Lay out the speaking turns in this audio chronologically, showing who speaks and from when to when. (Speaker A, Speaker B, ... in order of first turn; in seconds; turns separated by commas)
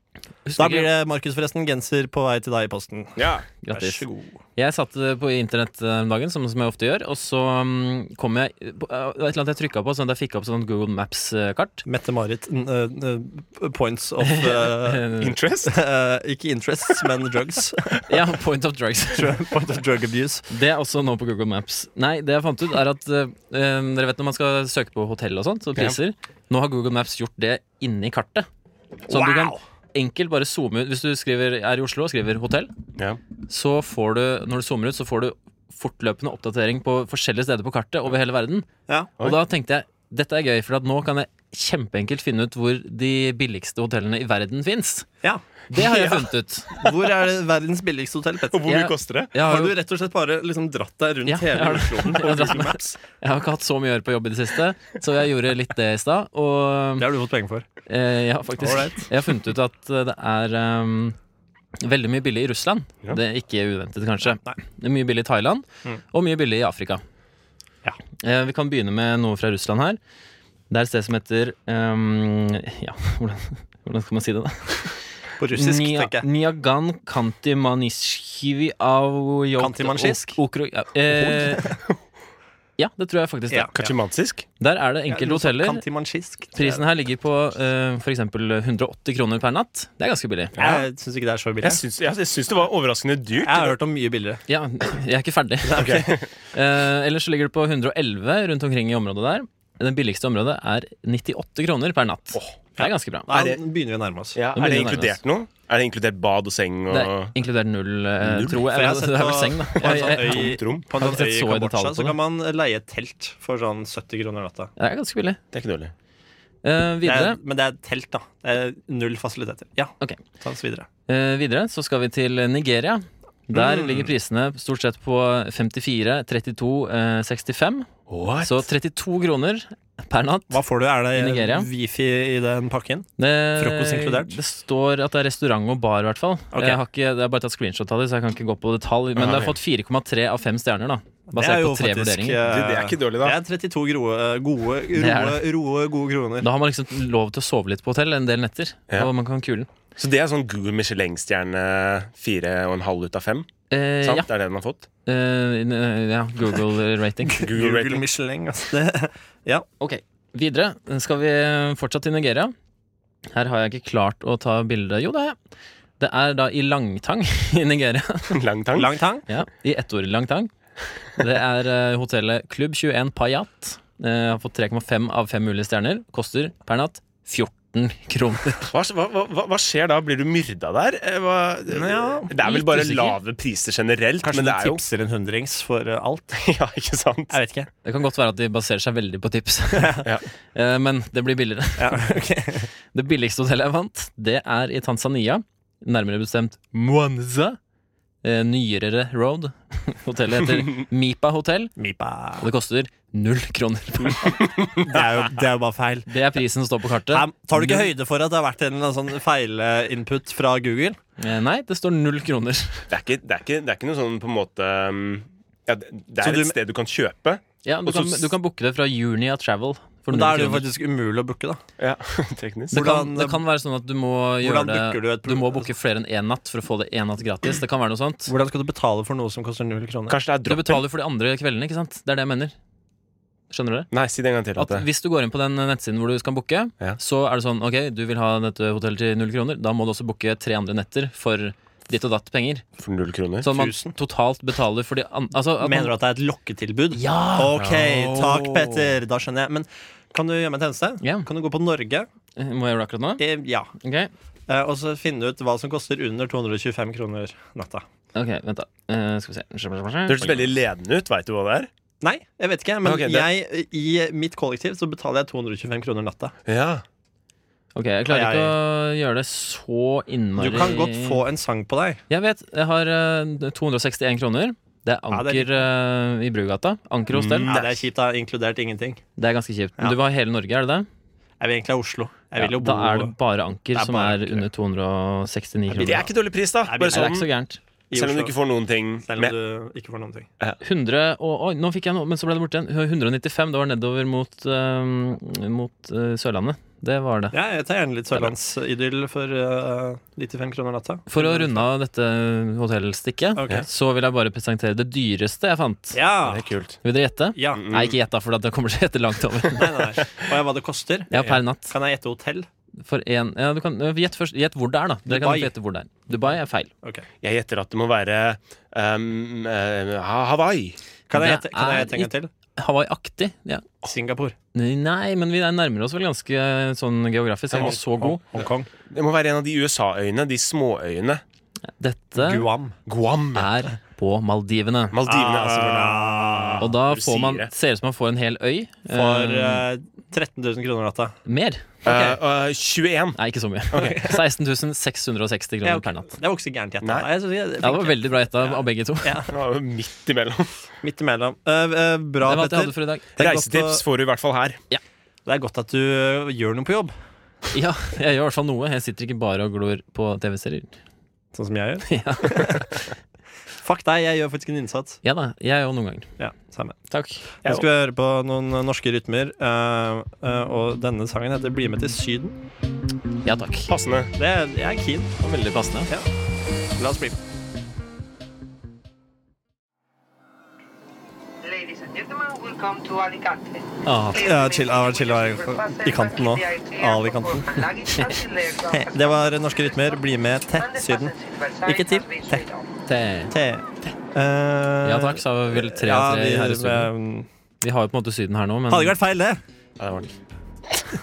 Speaker A: 0.5-0.9, Speaker B: 0.6-4.4, Speaker C: 3.2-3.5, Speaker A: 3.6-4.0, Speaker A: 4.6-11.8, Speaker B: 11.8-15.0, Speaker A: 14.2-15.3, Speaker C: 15.2-15.7, Speaker B: 15.7-18.0, Speaker A: 18.1-19.4, Speaker B: 19.1-20.5, Speaker A: 20.5-28.5, Speaker B: 29.1-29.6, Speaker A: 29.1-32.7, Speaker A: 33.5-38.7, Speaker A: 39.2-45.1, Speaker A: 45.7-46.8, Speaker C: 45.8-46.3, Speaker B: 46.8-52.9, Speaker C: 48.5-49.3, Speaker A: 48.7-49.8, Speaker A: 51.3-57.1, Speaker C: 52.3-52.6, Speaker B: 57.0-57.7, Speaker A: 57.9-61.2, Speaker B: 58.6-59.1, Speaker A: 61.8-67.0, Speaker B: 64.2-64.6, Speaker A: 68.2-70.0, Speaker A: 70.7-75.0, Speaker B: 75.4-76.3, Speaker A: 75.5-81.7, Speaker B: 79.6-80.4, Speaker B: 81.3-81.7, Speaker A: 82.8-83.9, Speaker C: 83.8-84.5, Speaker A: 84.6-85.8, Speaker B: 85.1-86.8, Speaker A: 86.5-90.5, Speaker C: 90.5-90.8, Speaker B: 90.6-91.8, Speaker C: 91.6-93.8, Speaker B: 93.4-94.4, Speaker A: 94.5-96.0, Speaker B: 95.6-96.2, Speaker C: 95.8-96.3, Speaker A: 96.5-103.3, Speaker B: 102.8-104.4, Speaker C: 103.3-103.6, Speaker C: 104.3-107.3, Speaker A: 104.5-105.2, Speaker A: 106.9-112.2, Speaker C: 108.2-108.6, Speaker B: 108.7-114.7, Speaker C: 109.8-110.9, Speaker A: 114.8-115.4, Speaker C: 115.5-115.9, Speaker A: 116.6-117.4, Speaker B: 117.0-120.9, Speaker A: 121.1-127.9, Speaker B: 123.5-124.0, Speaker C: 128.1-128.7, Speaker A: 128.4-130.6, Speaker B: 130.5-134.4, Speaker A: 131.1-131.7, Speaker A: 133.2-142.4, Speaker B: 136.5-136.8, Speaker C: 139.2-139.6, Speaker B: 141.3-146.5, Speaker C: 142.4-143.4, Speaker A: 144.9-145.4, Speaker A: 146.4-149.7, Speaker C: 150.0-153.5, Speaker A: 153.7-154.3, Speaker C: 154.0-154.8, Speaker A: 155.1-157.5, Speaker B: 157.3-159.7, Speaker C: 157.4-158.1, Speaker A: 159.8-162.5, Speaker A: 163.3-165.4, Speaker A: 166.0-168.4, Speaker C: 168.3-168.9, Speaker B: 168.8-169.3, Speaker A: 169.3-170.5, Speaker A: 171.2-178.7, Speaker C: 178.7-184.8, Speaker B: 181.7-182.3, Speaker A: 182.4-183.2, Speaker B: 184.2-186.4, Speaker C: 186.3-187.4, Speaker B: 187.3-187.7, Speaker A: 187.8-192.1, Speaker B: 189.7-190.1, Speaker B: 191.8-192.7, Speaker A: 192.9-197.6, Speaker A: 198.2-201.7, Speaker B: 201.8-202.5, Speaker A: 202.4-204.4, Speaker C: 204.4-204.8, Speaker B: 204.8-206.1, Speaker A: 206.1-207.9, Speaker B: 207.1-211.0, Speaker A: 211.2-212.9, Speaker C: 212.9-218.3, Speaker B: 216.2-216.6, Speaker A: 217.6-220.7, Speaker B: 220.1-221.6, Speaker C: 221.8-222.8, Speaker B: 222.7-223.4, Speaker A: 222.7-228.3, Speaker B: 224.4-225.7, Speaker B: 228.3-230.2, Speaker C: 230.1-230.8, Speaker A: 230.5-232.6, Speaker A: 233.5-233.9, Speaker C: 233.9-234.9, Speaker A: 234.6-242.6, Speaker C: 242.8-243.5, Speaker A: 243.4-245.9, Speaker B: 243.5-244.0, Speaker B: 245.6-252.1, Speaker A: 246.9-247.6, Speaker C: 247.6-248.7, Speaker A: 251.0-251.3, Speaker A: 252.4-253.2, Speaker B: 253.2-253.7, Speaker A: 253.8-254.1, Speaker B: 254.5-257.9, Speaker A: 258.1-260.6, Speaker C: 260.1-261.7, Speaker B: 262.0-266.3, Speaker C: 262.8-263.3, Speaker C: 266.5-266.8, Speaker A: 267.8-271.2, Speaker B: 268.1-268.6, Speaker B: 270.4-272.0, Speaker A: 272.1-277.5, Speaker B: 275.1-275.6, Speaker C: 277.1-277.8, Speaker B: 277.5-279.0, Speaker A: 279.2-280.9, Speaker B: 281.4-283.1, Speaker A: 282.4-286.1, Speaker B: 283.7-284.5, Speaker C: 285.7-287.3, Speaker B: 286.7-287.2, Speaker A: 286.8-287.6, Speaker B: 287.9-288.4, Speaker C: 287.9-289.4, Speaker B: 289.1-290.3, Speaker A: 290.6-297.4, Speaker B: 297.3-301.6, Speaker A: 301.1-306.0, Speaker B: 303.4-303.7, Speaker B: 305.9-306.5, Speaker C: 306.2-306.8, Speaker A: 306.8-310.1, Speaker B: 307.4-307.6, Speaker C: 307.6-308.0, Speaker B: 309.6-312.5, Speaker A: 311.1-311.8, Speaker A: 312.8-316.7, Speaker B: 315.1-315.5, Speaker C: 317.2-320.8, Speaker B: 321.1-322.3, Speaker A: 321.1-323.7, Speaker B: 323.8-324.4, Speaker A: 324.5-328.2, Speaker B: 327.5-328.7, Speaker C: 328.9-331.2, Speaker A: 331.8-332.5, Speaker B: 332.1-332.8, Speaker C: 332.9-333.5, Speaker A: 333.4-335.0, Speaker C: 334.9-337.5, Speaker B: 335.1-336.7, Speaker A: 336.6-339.6, Speaker B: 338.9-341.2, Speaker A: 341.3-341.7, Speaker C: 341.8-343.2, Speaker B: 341.9-342.2, Speaker A: 343.2-346.1, Speaker B: 343.7-344.2, Speaker C: 343.7-344.0, Speaker B: 345.6-348.5, Speaker C: 346.8-347.1, Speaker A: 347.6-349.2, Speaker B: 349.0-349.3, Speaker C: 349.3-350.7, Speaker B: 350.8-353.8, Speaker A: 352.2-353.1, Speaker C: 353.2-354.6, Speaker B: 355.2-356.9, Speaker A: 357.5-360.7, Speaker B: 361.3-362.7, Speaker A: 361.9-362.9, Speaker B: 363.6-365.0, Speaker A: 365.0-366.1, Speaker B: 366.2-366.8, Speaker A: 366.9-367.2, Speaker B: 367.4-372.4, Speaker A: 373.2-373.7, Speaker C: 373.7-374.1, Speaker B: 374.2-375.1, Speaker A: 375.2-375.9, Speaker B: 376.8-377.2, Speaker D: 381.4-392.7, Speaker A: 383.8-384.3, Speaker B: 384.1-387.5, Speaker B: 388.7-391.1, Speaker B: 391.6-392.4, Speaker A: 392.9-393.3, Speaker B: 393.3-397.3, Speaker A: 394.8-396.9, Speaker A: 397.6-399.0, Speaker B: 398.7-399.4, Speaker C: 399.8-400.1